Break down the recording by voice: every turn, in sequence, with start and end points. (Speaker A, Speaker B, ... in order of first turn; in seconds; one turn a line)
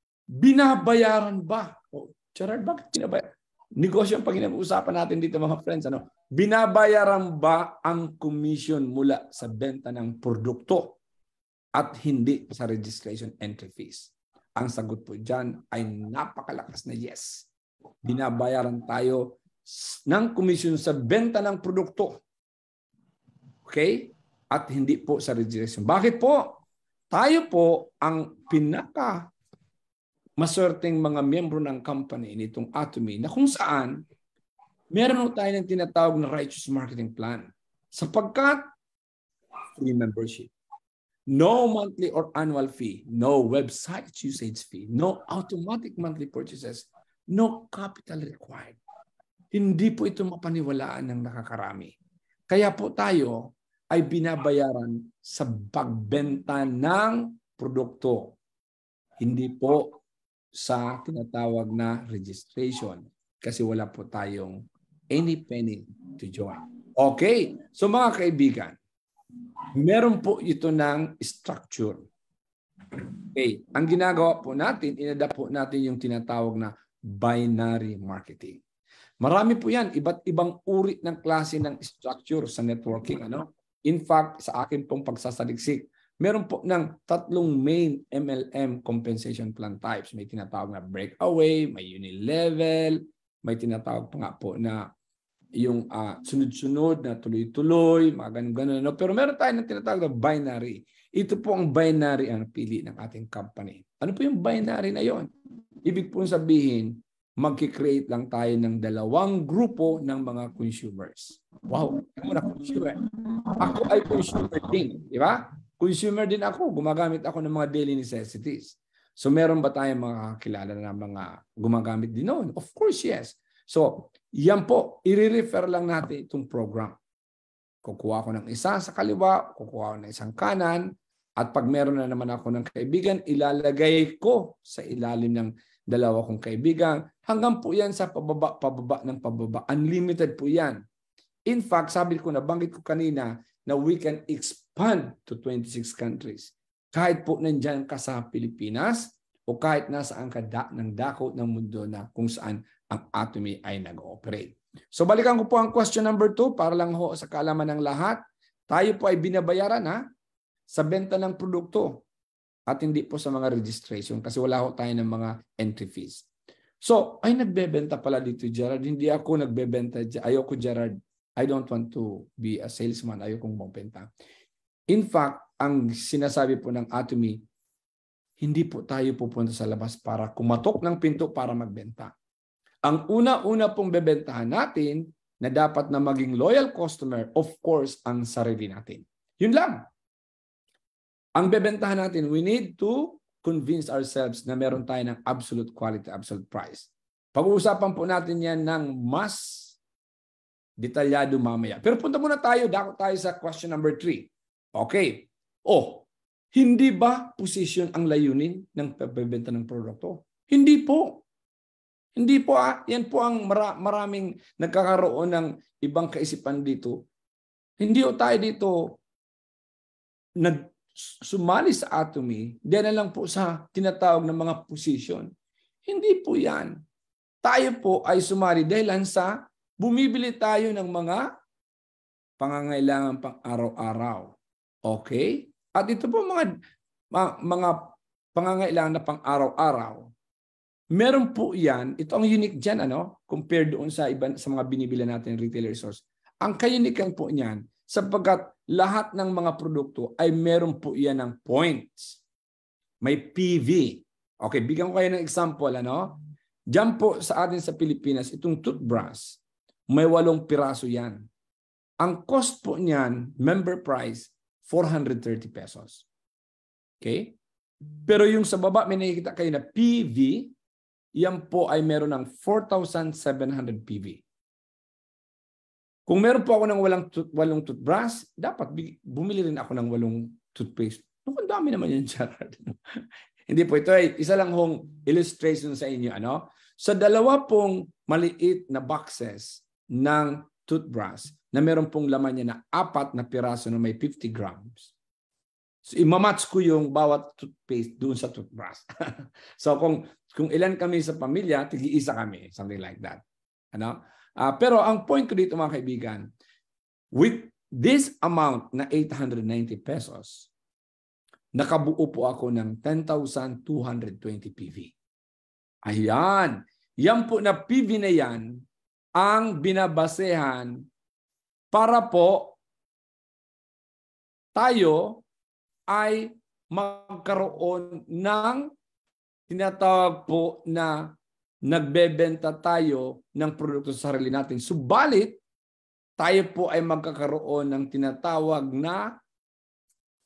Speaker A: 0.3-11.0
Speaker A: 11.8-17.4
Speaker A: 18.0-22.2
Speaker A: 23.6-26.6
Speaker A: 27.1-29.3
Speaker A: 30.4-34.0
Speaker A: 34.9-38.6
Speaker A: 39.7-40.5
Speaker A: 41.3-48.8
Speaker A: 49.5-51.9
Speaker A: 52.5-58.4
Speaker A: 59.2-60.0
Speaker A: 60.5-68.8
Speaker A: 69.7-72.1
Speaker A: 73.3-78.6
Speaker A: 79.2-94.9
Speaker A: 95.6-105.3
Speaker A: 105.8-113.0
Speaker A: 113.5-127.0
Speaker A: 127.8-140.8
Speaker A: 141.5-160.0
Speaker A: 160.7-162.0
Speaker A: 162.7-166.3
Speaker A: 166.8-174.1
Speaker A: 174.9-177.4
Speaker A: 178.4-182.1
Speaker A: 182.8-189.8
Speaker A: 191.3-199.7
Speaker A: 200.8-211.2
Speaker A: 212.2-217.0
Speaker A: 217.8-219.0
Speaker A: 220.4-225.3
Speaker A: 225.8-226.7
Speaker A: 227.4-231.2
Speaker A: 232.4-234.3
Speaker A: 234.8-236.5
Speaker A: 237.1-240.1
Speaker A: 240.9-252.2
Speaker A: 253.0-256.2
Speaker A: 256.7-261.2
Speaker A: 262.0-266.0
Speaker A: 267.0-267.4
Speaker A: 268.0-270.5
Speaker A: 271.1-274.2
Speaker A: 276.1-282.7
Speaker A: 283.5-294.9
Speaker A: 295.9-303.2
Speaker A: 303.7-306.3
Speaker A: 307.1-310.5
Speaker A: 311.5-314.9
Speaker A: 315.8-318.6
Speaker A: 319.2-320.7
Speaker A: 321.7-322.6
Speaker A: 324.5-325.2
Speaker A: 325.9-328.7
Speaker A: 329.5-331.1
Speaker A: 331.6-335.4
Speaker A: 336.2-339.1